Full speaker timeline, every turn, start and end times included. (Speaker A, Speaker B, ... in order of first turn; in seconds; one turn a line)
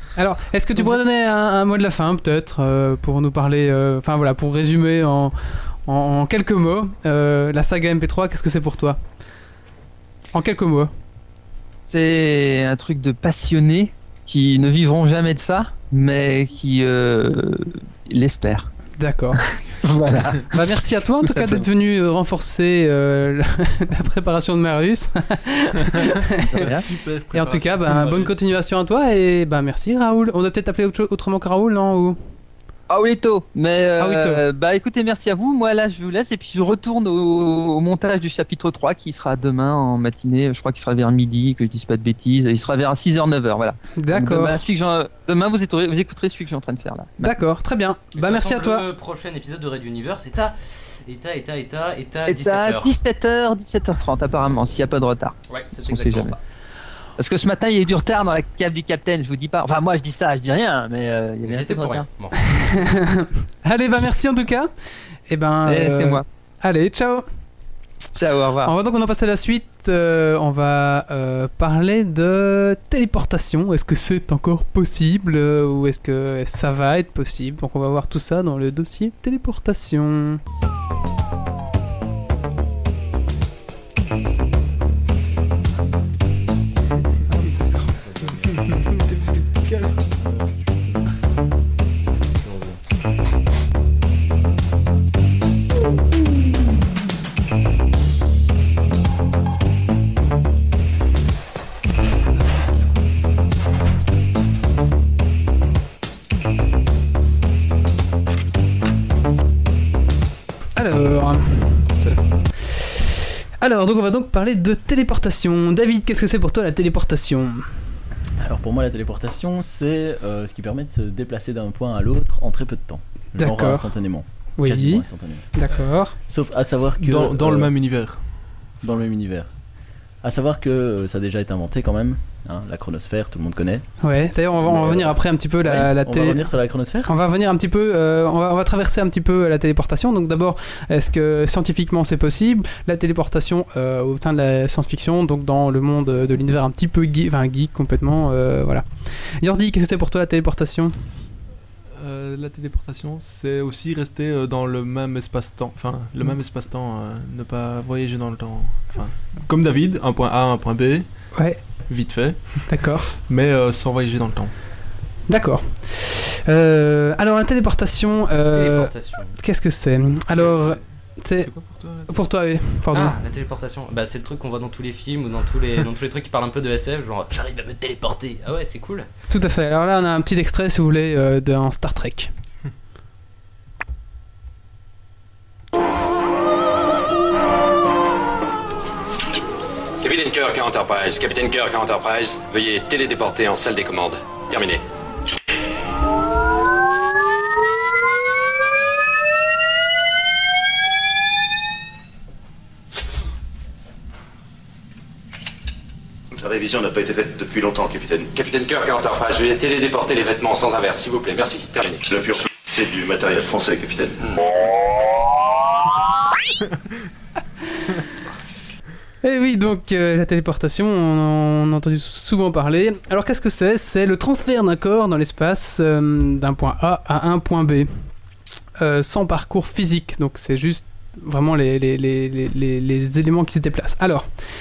Speaker A: 0.2-5.3
Speaker A: 5.9-9.0
Speaker A: 10.3-10.9
Speaker B: 11.9-18.7
Speaker A: 19.0-19.4
Speaker B: 19.5-20.6
Speaker A: 20.5-26.7
Speaker B: 21.2-21.7
Speaker B: 26.5-26.8
Speaker C: 26.6-28.4
Speaker A: 27.3-32.2
Speaker B: 32.9-47.4
Speaker A: 34.0-34.4
Speaker A: 44.0-44.6
Speaker A: 47.2-48.9
Speaker D: 48.1-52.9
Speaker B: 52.3-56.4
Speaker D: 55.5-56.4
Speaker B: 57.2-62.1
Speaker D: 61.4-62.4
Speaker A: 62.5-64.7
Speaker A: 65.3-67.2
Speaker B: 65.7-66.2
Speaker B: 68.2-68.7
Speaker A: 68.7-80.4
Speaker A: 110.8-117.7
Speaker E: 118.4-125.5
Speaker A: 123.4-123.9
Speaker A: 124.6-126.2
Speaker E: 126.3-127.7
Speaker C: 127.0-128.2
Speaker E: 128.8-129.5
Speaker E: 130.2-133.8
Speaker A: 134.0-136.5
Speaker E: 134.6-137.1
Speaker A: 137.0-150.9
Speaker C: 152.0-161.1
Speaker A: 161.3-161.6
Speaker C: 161.9-164.5
Speaker A: 162.7-163.1
Speaker A: 165.3-171.5
Speaker D: 168.5-169.3
Speaker C: 170.3-170.8
Speaker C: 171.4-172.1
Speaker A: 172.1-173.1
Speaker D: 172.9-179.1
Speaker A: 179.3-182.3
Speaker F: 190.0-194.8
Speaker G: 206.3-208.3
Speaker F: 208.3-212.0
Speaker G: 212.1-214.3
Speaker A: 219.2-227.9
Speaker A: 228.8-234.3